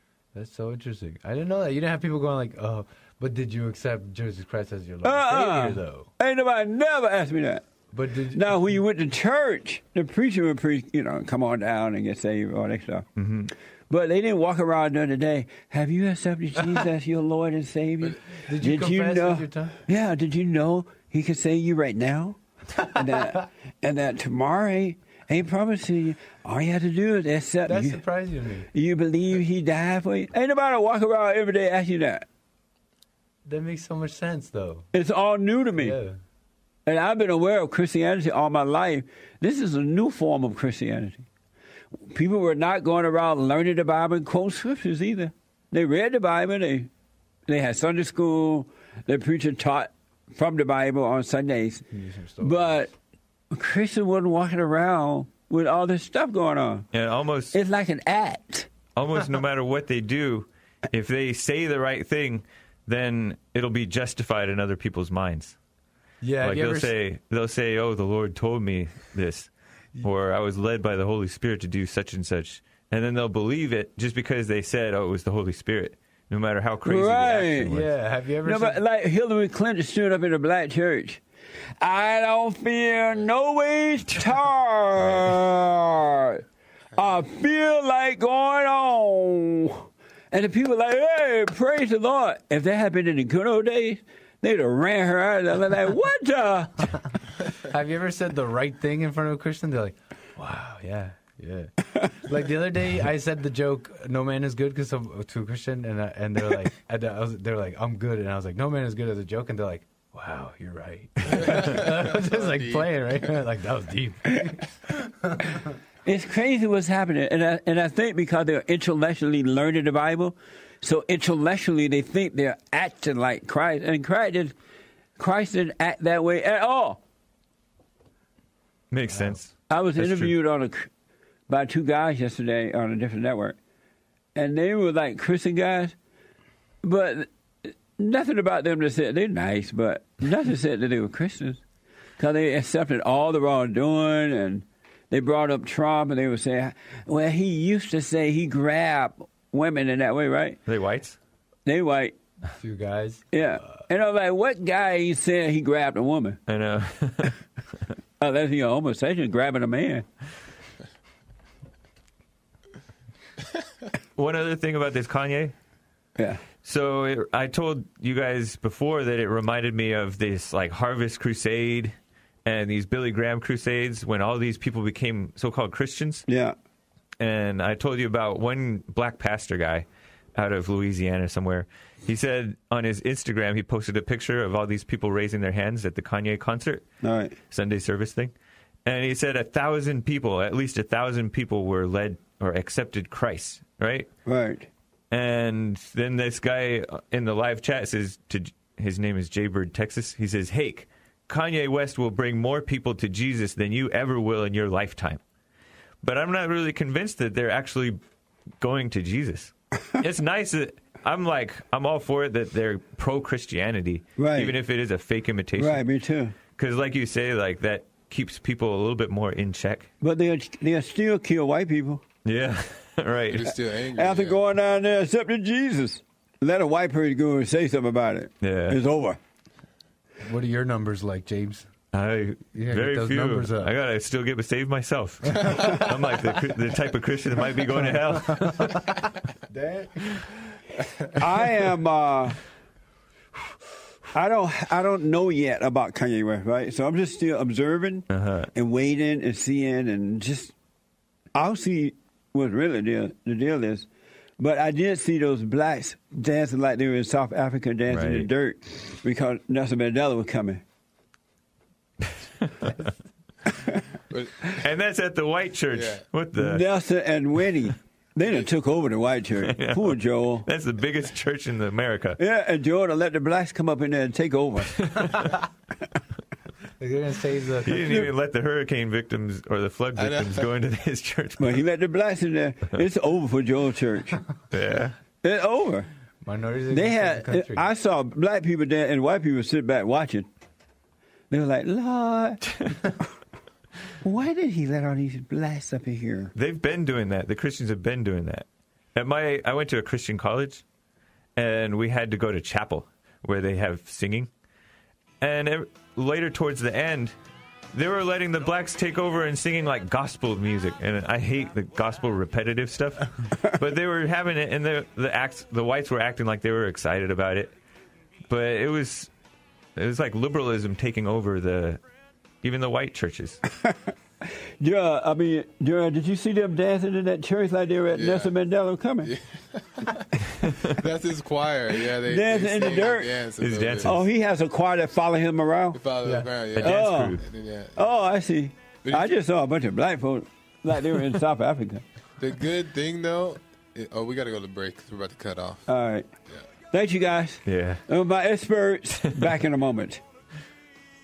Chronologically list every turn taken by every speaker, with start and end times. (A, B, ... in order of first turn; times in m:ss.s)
0:00.4-0:06.1 A
0:05.0-0:07.6 B
0:07.9-0:08.6 A
0:08.3-0:13.1 B
0:13.2-0:13.5 C
0:13.9-0:28.0 B
0:18.4-0:19.8 A
0:27.7-0:28.7 A
0:28.7-0:32.3 B
0:33.5-0:34.9 A
0:34.9-0:36.0 B
0:35.8-0:36.2 A
0:36.9-0:41.3 B
0:42.1-0:46.9 B
0:47.5-0:51.8 B
0:51.9-0:52.9 A
0:52.4-0:52.9 B
0:53.5-0:56.9 B
0:56.9-0:57.6 C
0:57.5-0:58.7 B
0:59.0-1:05.6 C
1:06.2-1:06.9 A
1:06.4-1:09.5 C
1:10.0-1:17.9 C
1:16.8-1:17.8 B
1:17.7-1:18.8 A
1:18.4-1:21.2 B
1:21.8-1:26.4 B
1:27.0-1:36.9 B
1:37.5-1:55.6 A
1:51.3-1:52.9 D
1:56.0-2:04.5 B
2:05.2-2:07.0 B
2:08.9-2:10.3 C
2:09.7-2:10.9 B
2:11.5-2:13.6 B
2:14.4-2:16.0 B
2:16.8-2:17.3 B
2:18.0-2:21.6 B
2:22.2-2:30.6 B
2:30.7-2:31.2 C
2:31.7-2:32.2 B
2:32.5-2:33.8 A
2:33.3-2:36.4 B
2:36.5-2:37.4 C
2:38.2-2:40.0 B
2:44.2-2:45.5 C
2:46.2-2:46.4 B
2:46.6-2:51.9 C
2:52.4-2:56.3 C
2:56.3-2:56.6 B
2:57.2-3:06.8 C
3:07.0-3:07.4 B
3:07.5-3:08.3 C
3:08.8-3:14.1 C
3:14.3-3:14.7 B
3:15.1-3:25.2 C
3:26.0-3:28.0 C
3:28.6-3:35.8 C
3:34.2-3:34.6 B
3:35.6-3:36.4 B
3:36.6-3:39.9 C
3:40.0-3:42.0 B
3:42.2-3:43.5 C
3:43.3-3:44.4 D
3:43.4-3:49.2 B
3:48.4-3:48.8 C
3:50.2-3:51.7 A
3:51.9-3:59.0 C
3:52.5-3:53.7 A
3:55.4-3:55.8 A
3:58.4-3:58.7 A
3:59.5-3:59.9 A
4:01.2-4:02.4 B
4:04.1-4:10.5 B
4:08.1-4:08.5 C
4:11.3-4:13.9 B
4:14.4-4:20.6 B
4:17.9-4:18.3 C
4:22.1-4:22.7 C
4:24.1-4:24.6 D
4:24.4-4:26.6 C
4:25.7-4:26.0 D
4:26.4-4:30.5 B
4:29.4-4:32.2 C
4:32.2-4:35.0 B
4:34.8-4:35.3 C
4:36.8-4:38.1 A
4:37.7-4:41.6 C
4:37.8-4:38.1 B
4:40.0-4:40.5 D
4:41.4-4:44.2 B
4:44.5-4:45.0 C
4:45.2-4:45.9 B
4:46.2-4:47.7 A
4:46.7-4:50.3 B
4:51.3-4:52.4 B
4:54.0-4:56.3 B
4:56.4-5:00.6 C
5:01.4-5:04.3 C
5:05.2-5:07.1 C
5:07.7-5:17.5 C
5:18.3-5:19.1 C
5:19.8-5:21.8 C
5:22.4-5:23.4 C
5:23.6-5:29.1 B
5:27.9-5:28.3 D
5:29.0-5:33.9 D
5:30.4-5:30.8 C
5:31.9-5:33.2 B
5:33.4-5:34.1 C
5:33.8-5:35.8 B
5:35.7-5:37.9 D
5:36.0-5:36.3 A
5:36.6-5:37.2 C
5:36.6-5:37.2 B
5:37.8-5:41.8 B
5:38.8-5:39.1 D
5:42.2-5:45.7 D
5:45.7-5:46.1 B
5:46.7-5:50.0 B
5:47.5-5:47.8 C